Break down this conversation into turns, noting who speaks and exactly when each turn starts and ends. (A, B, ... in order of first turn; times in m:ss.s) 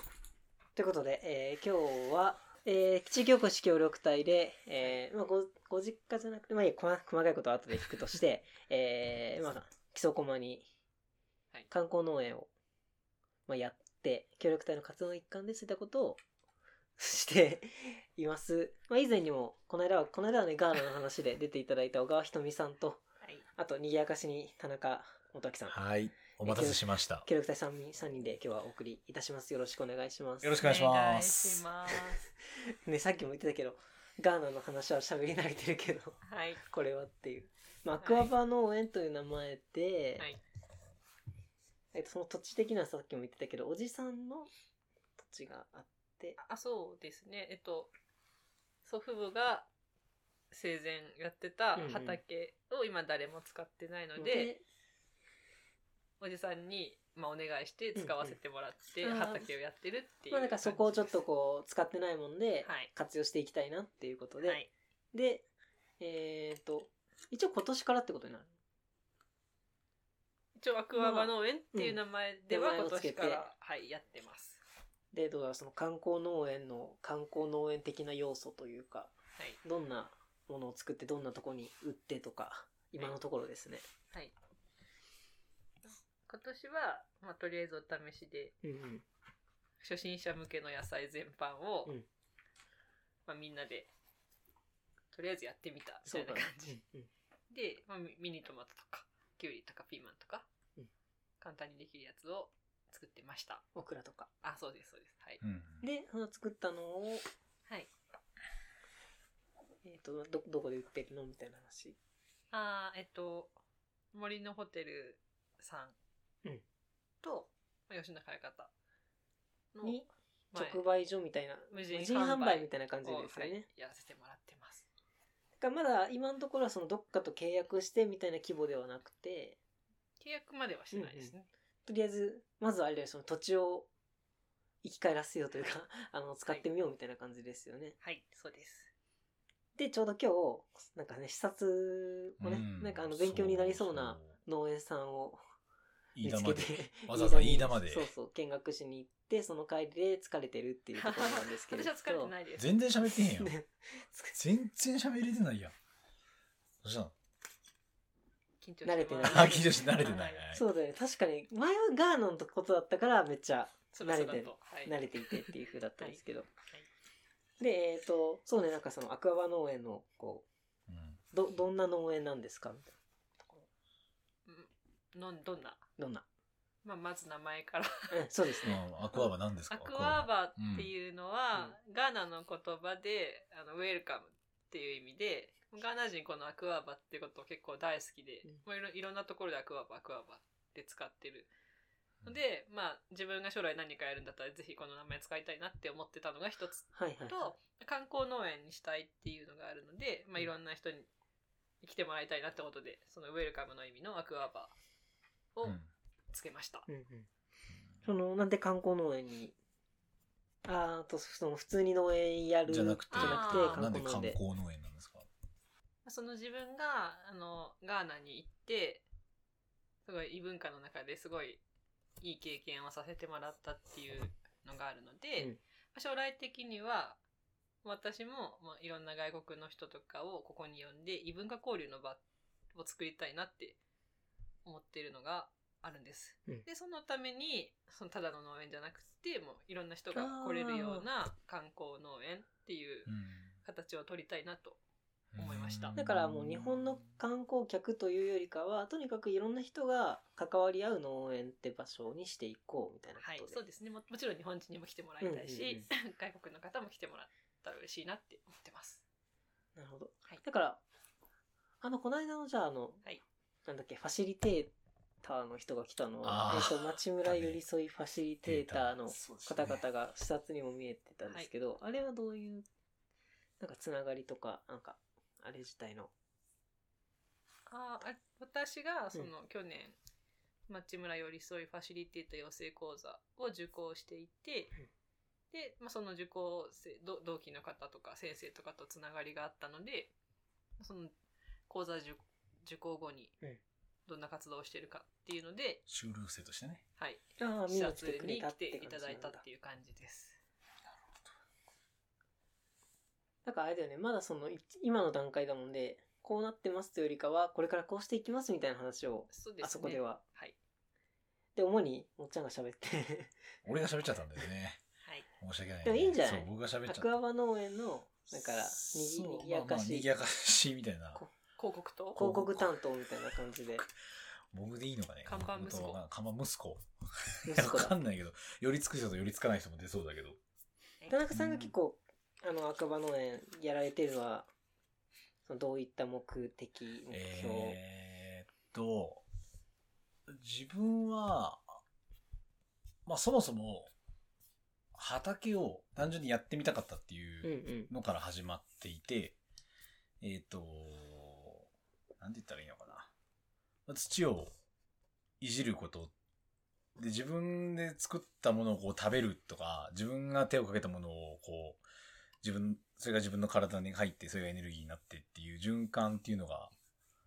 0:00.8-0:10.7 A
0:11.7-0:12.5 A
0:13.5-0:16.2 A
0:17.0-0:23.0 A
0:23.6-0:25.8 A
0:25.7-0:27.2 B
0:26.4-0:30.6 A
0:30.4-0:31.6 B
0:30.6-0:32.3 C
0:32.8-0:40.2 A
0:36.2-0:36.6 C
0:38.0-0:38.3 C
0:41.9-0:44.5 A
0:45.2-0:46.4 A
0:46.4-0:47.9 C
0:48.8-0:49.7 C
0:50.5-0:54.5 C
0:51.8-0:52.2 A
0:54.2-0:54.6 A
0:56.2-1:01.2 C
0:58.0-0:58.4 A
0:59.0-0:59.5 A
1:00.3-1:04.6 A
1:04.4-1:04.7 C
1:05.1-1:05.5 A
1:06.0-1:08.5 A
1:10.6-1:14.6 C
1:11.0-1:12.0 A
1:12.5-1:13.5 A
1:15.1-1:23.8 A
1:26.3-1:28.6 C
1:28.6-1:29.0 A
1:29.8-1:31.9 C
1:33.2-1:33.9 C
1:35.1-1:36.8 C
1:36.0-1:37.1 A
1:37.5-1:40.4 C
1:41.4-1:43.6 C
1:43.7-1:44.3 A
1:44.4-1:45.4 C
1:45.4-1:45.8 B
1:45.8-1:47.2 A
1:49.8-1:52.0 A
1:52.5-1:53.6 C
1:54.1-1:55.9 C
1:57.2-1:58.7 C
1:59.7-2:00.0 C
1:59.8-2:03.6 A
2:00.5-2:00.8 C
2:01.7-2:04.9 C
2:05.6-2:09.6 A
2:10.2-2:11.5 C
2:10.9-2:11.3 A
2:11.8-2:13.9 A
2:14.8-2:18.0 A
2:18.0-2:18.9 C
2:19.8-2:25.4 A
2:22.4-2:24.3 B
2:26.1-2:28.1 B
2:26.2-2:32.3 A
2:31.0-2:32.7 C
2:32.6-2:33.5 B
2:33.1-2:34.4 A
2:34.4-2:35.7 B
2:36.8-2:37.1 B
2:38.6-2:40.4 C
2:38.8-2:39.9 A
2:39.2-2:40.6 B
2:40.5-2:46.5 A
2:43.9-2:46.2 C
2:47.6-2:50.4 A
2:50.9-2:51.2 B
2:51.3-2:53.7 A
2:54.5-2:55.8 C
2:56.0-2:56.2 A
2:56.8-3:11.5 C
2:58.1-2:58.8 A
2:58.6-3:00.9 B
3:12.2-3:21.1 C
3:16.9-3:17.6 A
3:21.8-3:24.7 C
3:26.3-3:26.9 C
3:26.9-3:27.3 A
3:28.0-3:29.5 A
3:30.6-3:34.4 A
3:32.7-3:35.3 B
3:33.1-3:33.8 C
3:36.0-3:39.0 C
3:40.0-3:41.6 C
3:42.2-3:47.2 C
3:47.8-3:52.2 C
3:52.7-3:53.8 C
3:54.6-4:04.8 C
4:00.1-4:01.0 A
4:03.1-4:03.5 B
4:05.3-4:07.0 B
4:05.4-4:06.0 C
4:06.0-4:13.6 A
4:13.2-4:19.0 C
4:15.2-4:15.9 A
4:19.8-4:20.8 A
4:21.8-4:23.0 A
4:23.6-4:24.7 A
4:25.2-4:32.6 A
4:26.2-4:27.6 B
4:28.4-4:29.8 B
4:33.6-4:36.1 A
4:37.7-4:40.0 C
4:40.7-4:44.7 C
4:45.5-4:50.1 C
4:50.8-4:51.1 C
4:51.7-4:53.3 C
4:54.1-4:55.8 C
4:55.9-4:56.8 B
4:57.0-5:00.4 C
4:57.4-4:59.4 A
5:00.9-5:01.3 B
5:03.4-5:10.2 A
5:09.3-5:10.5 C
5:11.6-5:13.4 A
5:13.6-5:14.8 B
5:15.4-5:17.1 B
5:15.8-5:20.1 A
5:18.4-5:21.2 B
5:21.6-5:22.2 C
5:22.1-5:22.7 B
5:22.1-5:23.8 A
5:24.5-5:30.4 B
5:25.2-5:26.0 C
5:27.4-5:27.9 A
5:31.1-5:34.5 A
5:31.3-5:31.7 B
5:35.4-5:37.8 A
5:37.1-5:39.2 B
5:40.3-5:41.8 B
5:43.0-5:43.9 B
5:44.9-5:49.4 B
5:47.4-5:47.9 A
5:50.2-5:51.6 B
5:52.2-5:53.1 B
5:53.9-5:54.5 B
5:55.4-5:56.1 B
5:57.0-6:01.8 B
6:02.4-6:06.7 B